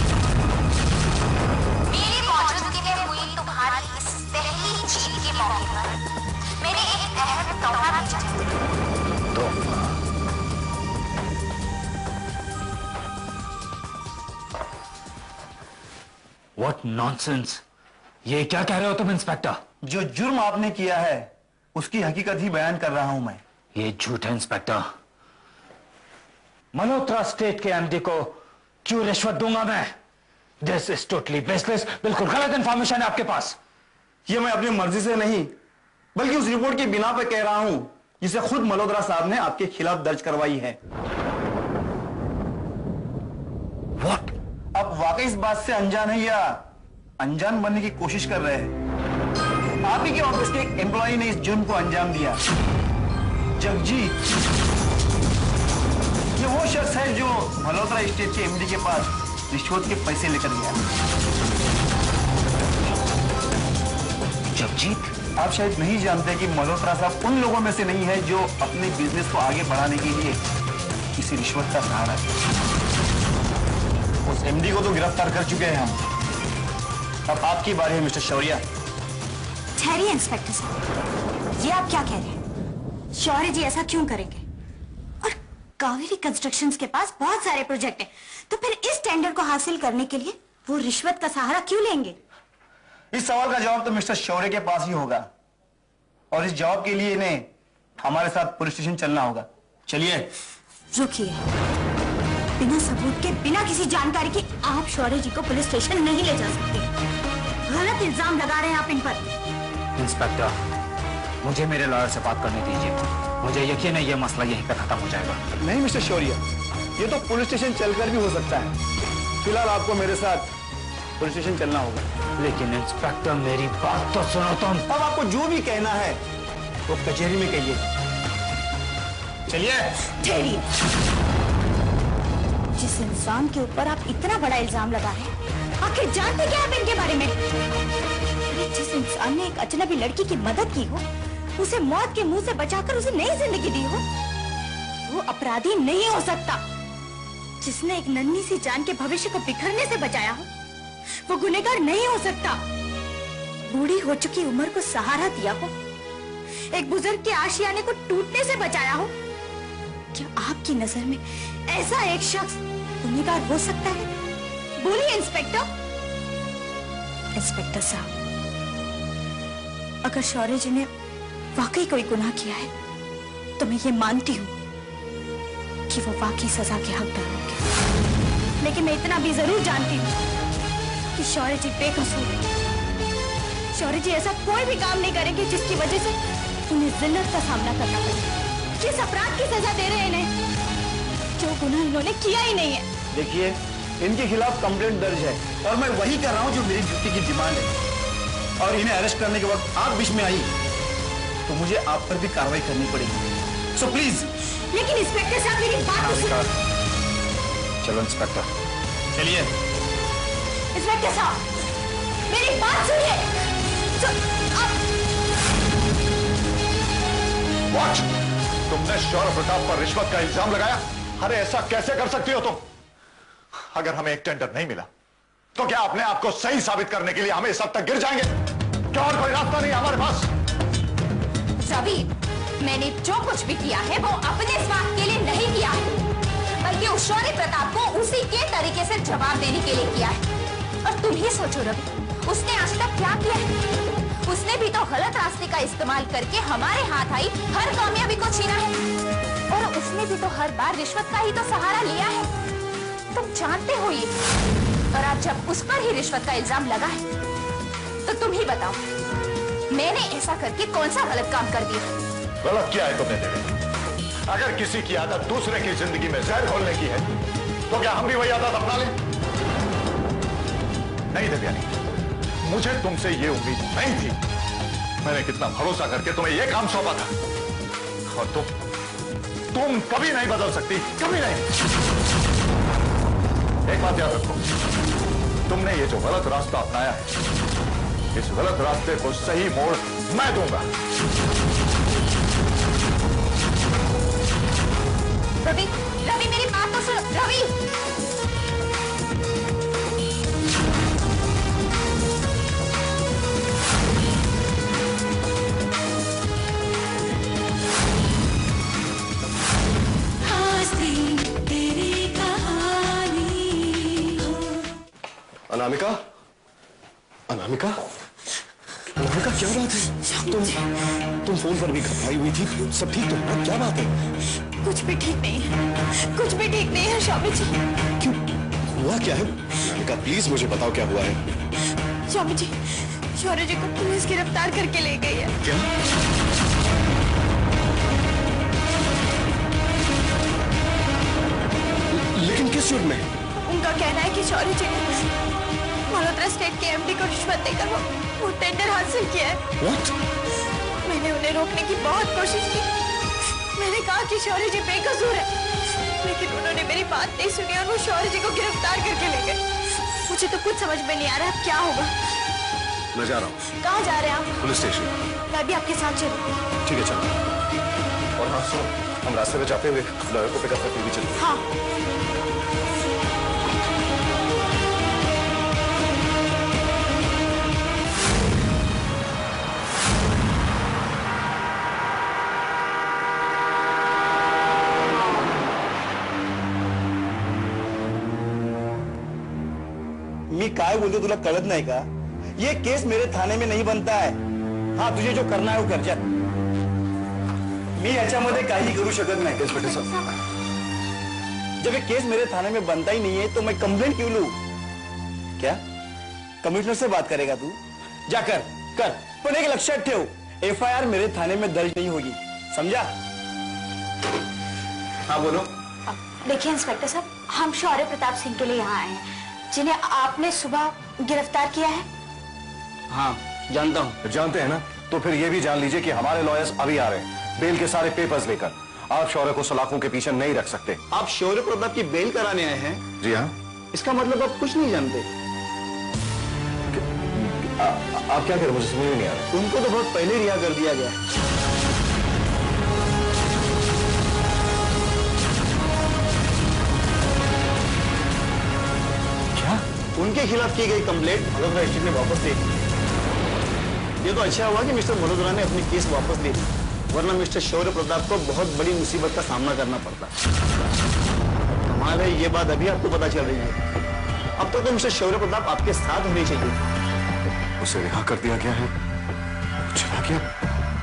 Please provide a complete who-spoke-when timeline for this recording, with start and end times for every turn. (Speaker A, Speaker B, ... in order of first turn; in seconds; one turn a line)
Speaker A: 1.9-6.0
Speaker A: 6.6-8.6
Speaker B: 9.3-9.9
Speaker B: 16.6-17.6
Speaker B: 18.2-19.6
Speaker C: 19.8-23.4
Speaker B: 23.8-24.8
Speaker B: 26.7-29.9
Speaker B: 30.6-33.6
Speaker C: 34.3-35.5
Speaker C: 36.1-40.8
Speaker C: 44.8-46.6
Speaker C: 47.2-48.8
Speaker C: 49.9-52.4
Speaker C: 53.6-54.1
Speaker C: 56.4-60.8
Speaker B: 64.5-65.1
Speaker C: 65.4-70.4
Speaker C: 71.2-72.3
Speaker C: 74.3-76.0
Speaker C: 77.3-78.6
Speaker D: 79.8-80.7
Speaker D: 81.6-82.4
Speaker D: 83.2-84.4
Speaker D: 85.2-92.2
Speaker C: 93.1-95.2
Speaker C: 96.3-97.5
Speaker C: 98.0-100.3
Speaker D: 100.9-101.4
Speaker D: 102.6-106.9
Speaker D: 107.7-109.2
Speaker B: 110.0-110.6
Speaker B: 111.4-115.4
Speaker C: 115.6-116.4
Speaker C: 117.0-118.7
Speaker C: 119.4-120.5
Speaker C: 121.2-122.0
Speaker B: 122.4-124.9
Speaker C: 124.9-126.2
Speaker C: 126.9-127.8
Speaker C: 129.5-130.0
Speaker D: 130.2-130.6
Speaker D: 132.8-137.3
Speaker D: 138.5-141.0
Speaker D: 141.6-144.0
Speaker D: 145.1-146.6
Speaker D: 147.6-150.5
Speaker D: 151.3-152.6
Speaker D: 153.7-155.7
Speaker D: 156.7-159.1
Speaker D: 160.1-164.1
Speaker D: 164.8-165.7
Speaker D: 167.4-168.1
Speaker D: 170.0-170.9
Speaker D: 171.6-172.7
Speaker D: 173.6-174.5
Speaker D: 175.9-177.6
Speaker D: 178.6-180.1
Speaker D: 181.2-182.4
Speaker D: 183.8-186.2
Speaker D: 186.7-190.3
Speaker D: 191.4-192.9
Speaker C: 193.1-197.7
Speaker C: 198.6-200.5
Speaker C: 201.5-204.3
Speaker D: 204.7-206.4
Speaker B: 207.8-208.4
Speaker C: 209.1-209.5
Speaker D: 210.8-211.4
Speaker D: 212.3-213.3
Speaker D: 214.0-214.8
Speaker E: 217.7-218.1
Speaker E: 218.7-222.7
Speaker E: 223.6-224.9
Speaker E: 225.6-228.3
Speaker E: 228.9-230.3
Speaker A: 231.6-235.9
Speaker A: 236.6-240.2
Speaker A: 240.8-243.5
Speaker A: 244.2-248.8
Speaker A: 249.5-252.3
Speaker A: 253.1-254.2
Speaker A: 254.9-257.0
Speaker A: 258.0-258.8
Speaker A: 259.7-261.9
Speaker E: 262.4-263.6
Speaker E: 264.3-267.1
Speaker E: 267.7-269.0
Speaker E: 271.1-271.8
Speaker E: 272.4-274.2
Speaker E: 275.0-277.1
Speaker E: 278.1-278.5
Speaker E: 279.5-281.5
Speaker E: 283.7-284.4
Speaker E: 285.5-287.1
Speaker E: 288.1-290.7
Speaker A: 295.4-297.6
Speaker D: 310.2-314.2
Speaker F: 315.5-316.0
Speaker F: 317.3-317.9
Speaker F: 319.0-320.6
Speaker D: 320.0-320.6
Speaker F: 321.2-323.9
Speaker D: 324.6-327.5
Speaker F: 328.7-331.2
Speaker D: 332.1-335.3
Speaker F: 335.4-335.7
Speaker F: 341.9-343.1
Speaker D: 343.4-345.1
Speaker D: 345.9-349.4
Speaker F: 349.6-349.9
Speaker D: 350.8-352.7
Speaker D: 353.6-359.4
Speaker D: 360.1-361.9
Speaker F: 362.9-363.4
Speaker D: 363.5-364.4
Speaker F: 364.4-364.9
Speaker D: 365.3-366.3
Speaker F: 366.6-367.1
Speaker F: 368.2-371.2
Speaker D: 371.2-371.4
Speaker C: 390.3-394.2
Speaker C: 394.8-396.0
Speaker C: 397.8-399.6
Speaker F: 399.4-400.0
Speaker C: 401.6-404.4
Speaker C: 406.4-412.9
Speaker C: 415.1-415.5
Speaker D: 416.2-421.9
Speaker C: 422.9-424.0
Speaker F: 424.1-430.8
Speaker C: 430.9-432.8
Speaker F: 433.0-433.3
Speaker C: 433.7-435.1
Speaker F: 436.7-439.3
Speaker C: 439.3-441.0
Speaker F: 449.4-449.6
Speaker C: 450.0-452.4
Speaker C: 454.0-460.1
Speaker C: 461.7-463.6
Speaker C: 464.4-466.6
Speaker F: 467.6-468.7
Speaker F: 469.7-470.3